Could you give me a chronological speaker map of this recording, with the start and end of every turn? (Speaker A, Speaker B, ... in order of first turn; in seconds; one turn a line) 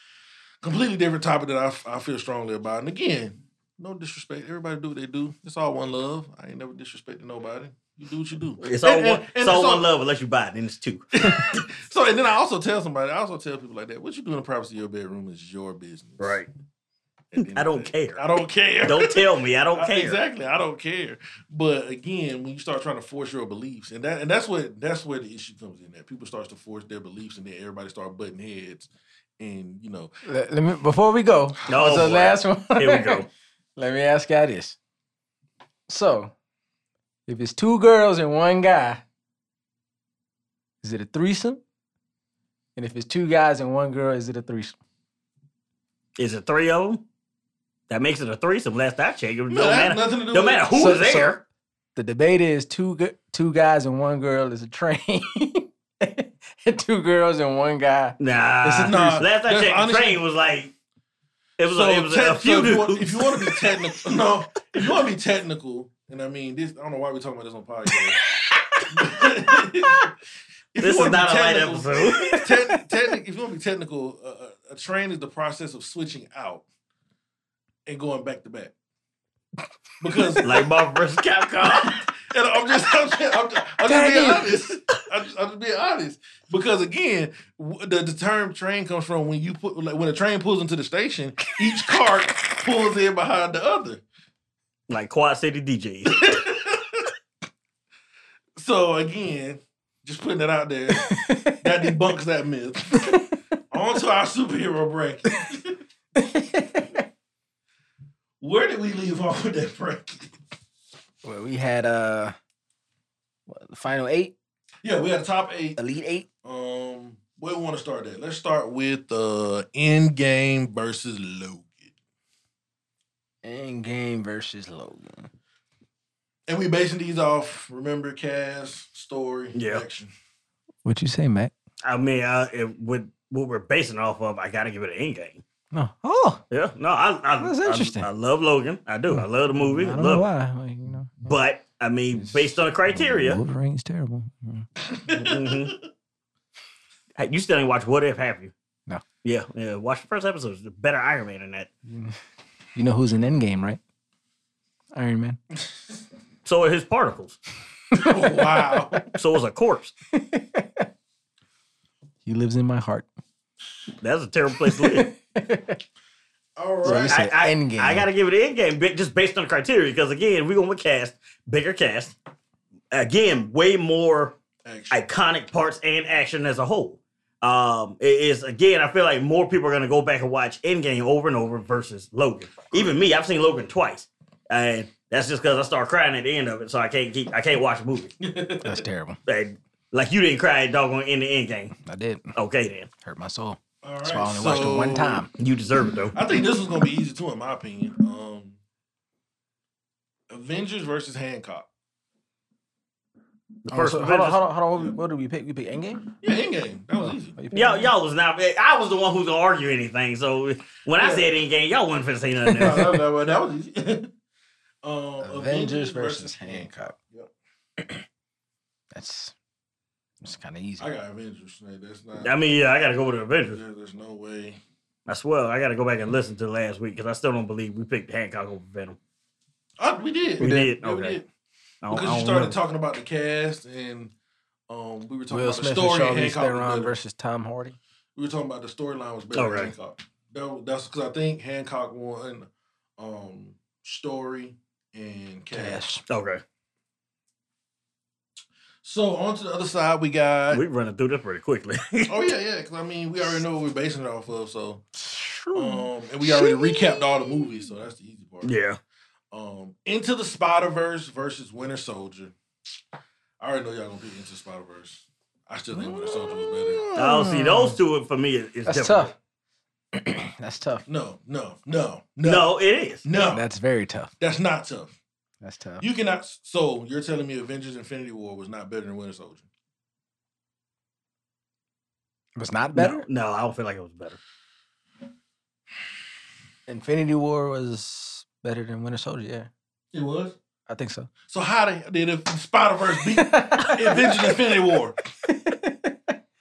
Speaker A: 0.6-9.9
Speaker B: 8.6-11.4
Speaker A: 11.2-16.4
Speaker B: 16.2-16.5
Speaker A: 17.3-30.1
Speaker B: 17.4-18.2
Speaker B: 18.8-20.2
Speaker C: 30.2-34.8
Speaker B: 31.7-33.3
Speaker A: 31.7-32.2
Speaker C: 35.9-36.3
Speaker C: 37.3-39.0
Speaker C: 40.8-41.6
Speaker C: 42.8-44.8
Speaker B: 46.2-47.0
Speaker B: 47.9-51.4
Speaker A: 49.5-51.0
Speaker C: 50.7-51.4
Speaker C: 51.9-59.2
Speaker B: 58.2-60.7
Speaker A: 58.7-60.2
Speaker B: 61.6-63.7
Speaker A: 61.7-68.2
Speaker A: 68.9-70.1
Speaker A: 70.7-76.7
Speaker B: 70.8-72.4
Speaker C: 72.1-72.8
Speaker A: 77.8-78.7
Speaker A: 80.0-80.6
Speaker B: 80.4-82.0
Speaker A: 81.6-94.0
Speaker C: 83.8-84.5
Speaker B: 94.9-96.3
Speaker A: 96.1-97.1
Speaker A: 98.6-105.8
Speaker C: 100.9-101.9
Speaker C: 106.1-107.0
Speaker A: 108.4-110.3
Speaker C: 111.2-112.4
Speaker C: 113.5-114.3
Speaker A: 114.8-115.8
Speaker C: 115.8-116.3
Speaker A: 116.4-121.9
Speaker C: 123.4-125.3
Speaker A: 126.5-130.1
Speaker B: 129.5-129.8
Speaker C: 130.8-131.5
Speaker B: 131.8-135.4
Speaker C: 135.7-136.4
Speaker B: 136.5-140.3
Speaker C: 137.4-138.1
Speaker C: 139.1-141.3
Speaker B: 141.2-143.4
Speaker C: 142.1-144.7
Speaker A: 145.1-145.5
Speaker B: 145.1-145.8
Speaker B: 147.2-148.5
Speaker B: 149.2-151.7
Speaker C: 151.9-152.2
Speaker C: 152.7-153.8
Speaker C: 154.9-155.4
Speaker B: 156.4-157.4
Speaker C: 157.9-158.8
Speaker A: 157.9-159.1
Speaker B: 159.1-159.9
Speaker C: 160.1-160.9
Speaker C: 162.2-163.1
Speaker B: 164.0-165.1
Speaker C: 164.6-165.8
Speaker A: 166.6-167.2
Speaker C: 166.8-168.1
Speaker B: 166.9-172.1
Speaker B: 172.9-174.4
Speaker A: 174.6-175.0
Speaker B: 174.9-188.1
Speaker A: 188.2-188.8
Speaker C: 188.6-189.2
Speaker B: 189.2-191.7
Speaker C: 191.8-192.3
Speaker B: 192.3-192.9
Speaker C: 193.0-195.3
Speaker A: 193.8-195.2
Speaker B: 195.4-196.2
Speaker A: 196.1-198.6
Speaker A: 200.3-201.7
Speaker B: 203.6-204.4
Speaker C: 203.7-206.1
Speaker A: 206.2-207.4
Speaker C: 206.9-207.9
Speaker B: 207.5-212.9
Speaker A: 211.0-211.3
Speaker A: 212.5-214.1
Speaker C: 212.6-213.0
Speaker A: 214.8-217.3
Speaker C: 215.2-216.9
Speaker C: 218.9-219.3
Speaker C: 220.2-220.9
Speaker A: 220.8-222.4
Speaker B: 222.2-223.6
Speaker A: 223.4-224.6
Speaker B: 225.1-229.0
Speaker A: 229.8-231.2
Speaker C: 230.4-230.8
Speaker B: 230.4-231.2
Speaker B: 231.8-232.6
Speaker A: 231.9-234.1
Speaker A: 234.7-236.9
Speaker C: 235.3-237.8
Speaker A: 238.2-245.8
Speaker B: 239.3-239.7
Speaker C: 245.5-246.0
Speaker B: 246.1-246.4
Speaker A: 248.8-250.6
Speaker B: 250.5-252.1
Speaker A: 252.1-254.8
Speaker C: 254.9-257.7
Speaker A: 255.5-258.5
Speaker B: 258.4-258.8
Speaker A: 259.3-262.3
Speaker A: 263.4-266.9
Speaker C: 265.7-267.8
Speaker B: 266.9-269.1
Speaker C: 268.7-269.1
Speaker C: 269.9-270.8
Speaker A: 270.9-272.5
Speaker B: 272.2-273.1
Speaker A: 273.0-273.4
Speaker C: 273.1-274.1
Speaker A: 274.2-275.0
Speaker C: 275.4-275.9
Speaker A: 275.8-279.5
Speaker C: 282.4-283.1
Speaker B: 282.7-284.2
Speaker C: 286.7-289.5
Speaker A: 289.9-290.3
Speaker C: 290.7-291.1
Speaker A: 291.3-295.0
Speaker C: 293.0-296.1